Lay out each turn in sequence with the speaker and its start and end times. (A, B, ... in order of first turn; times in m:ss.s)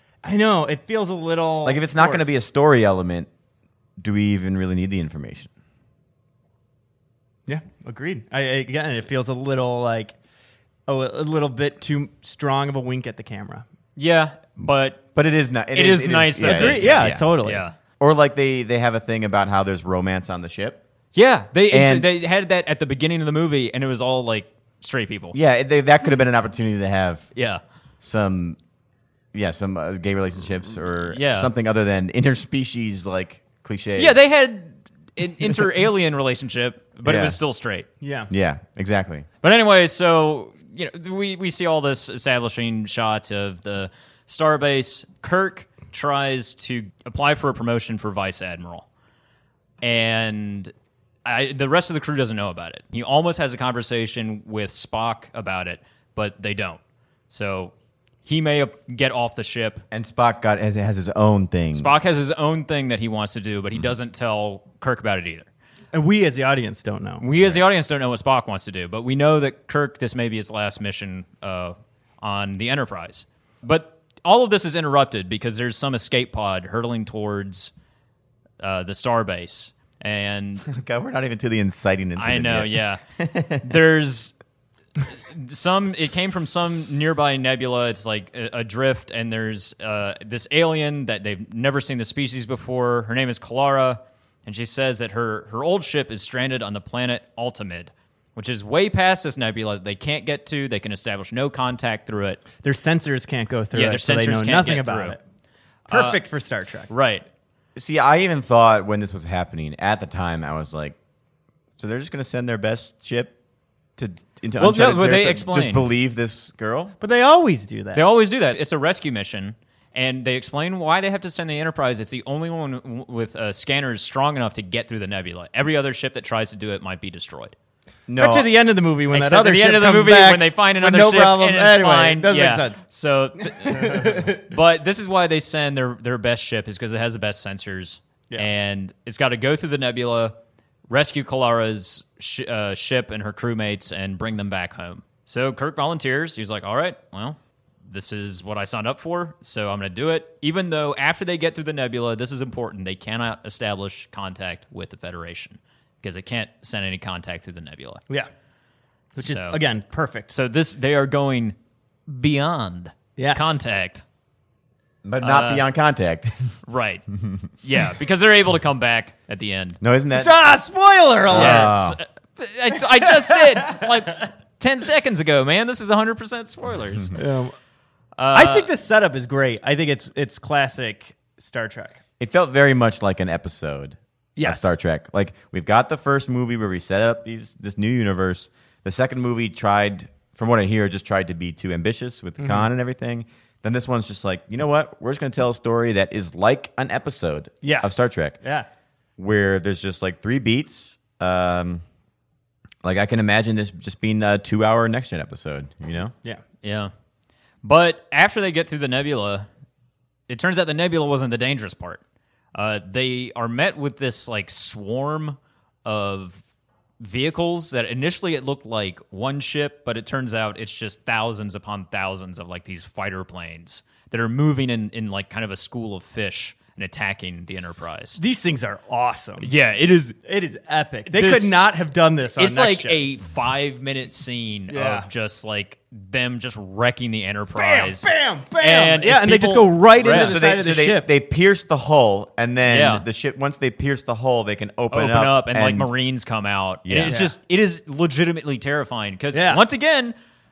0:00.2-0:02.3 A
0:01.6-0:03.3 B
0:04.0-0:05.5 B
0:07.5-0:10.2 A
0:10.9-0:13.6 A
0:14.0-0:15.0 C
0:15.2-0:17.3 B
0:15.7-0:17.8 C
0:16.4-0:17.6 A
0:18.0-0:20.8 B
0:21.1-0:25.4 C
0:21.7-0:22.1 B
0:25.3-0:27.3 B
0:27.4-0:27.6 C
0:28.0-0:28.6 B
0:29.3-0:34.2 B
0:31.1-0:31.5 C
0:34.0-0:37.9 C
0:37.0-0:37.4 B
0:38.0-0:38.3 A
0:38.3-0:39.3 B
0:39.4-0:48.8 C
0:49.8-0:50.7 C
0:51.2-0:57.7 C
0:58.3-0:59.8 C
0:59.9-1:01.9 B
1:01.7-1:05.5 C
1:05.9-1:07.2 A
1:07.2-1:17.7 C
1:07.4-1:07.6 B
1:18.6-1:20.7 C
1:20.6-1:23.8 B
1:22.2-1:23.0 C
1:23.6-1:24.4 C
1:25.1-1:42.4 C
1:42.6-1:45.2 A
1:43.7-1:45.2 C
1:45.9-1:46.2 C
1:45.9-1:46.9 A
1:46.9-1:47.2 C
1:47.8-1:51.0 B
1:51.8-1:53.3 B
1:54.0-1:57.0 B
1:54.6-1:55.9 C
1:57.0-1:58.0 A
1:58.0-2:07.6 C
2:08.1-2:08.5 B
2:08.2-2:12.8 A
2:09.1-2:20.4 C
2:13.4-2:14.4 A
2:20.9-2:38.0 C
2:39.2-2:40.3 A
2:39.2-2:39.6 C
2:40.3-2:41.6 C
2:42.1-2:44.0 C
2:43.2-2:43.6 A
2:45.0-2:46.4 B
2:45.2-2:45.7 C
2:46.7-2:47.1 C
2:47.6-2:49.8 C
2:49.8-2:50.4 B
2:50.1-2:51.8 A
2:51.3-2:52.0 B
2:51.3-2:57.2 C
2:53.0-2:53.9 A
2:57.2-2:57.5 A
2:58.2-2:58.7 C
2:58.3-3:02.0 A
3:02.2-3:18.4 B
3:04.4-3:04.8 A
3:12.4-3:12.7 A
3:17.6-3:17.9 A
3:18.4-3:18.7 A
3:19.2-3:21.8 B
3:22.8-3:26.2 B
3:26.6-3:26.9 C
3:27.6-3:29.5 C
3:30.3-3:32.0 C
3:32.6-3:36.4 C
3:37.0-3:48.2 C
3:48.2-3:49.5 A
3:49.4-3:50.2 C
3:50.2-3:53.0 A
3:51.1-3:51.7 C
3:52.4-4:00.4 C
3:54.7-3:55.1 A
3:57.5-4:01.1 A
4:00.0-4:05.9 B
4:02.7-4:03.0 C
4:04.9-4:10.2 C
4:06.8-4:07.2 B
4:07.1-4:07.3 A
4:09.3-4:09.6 A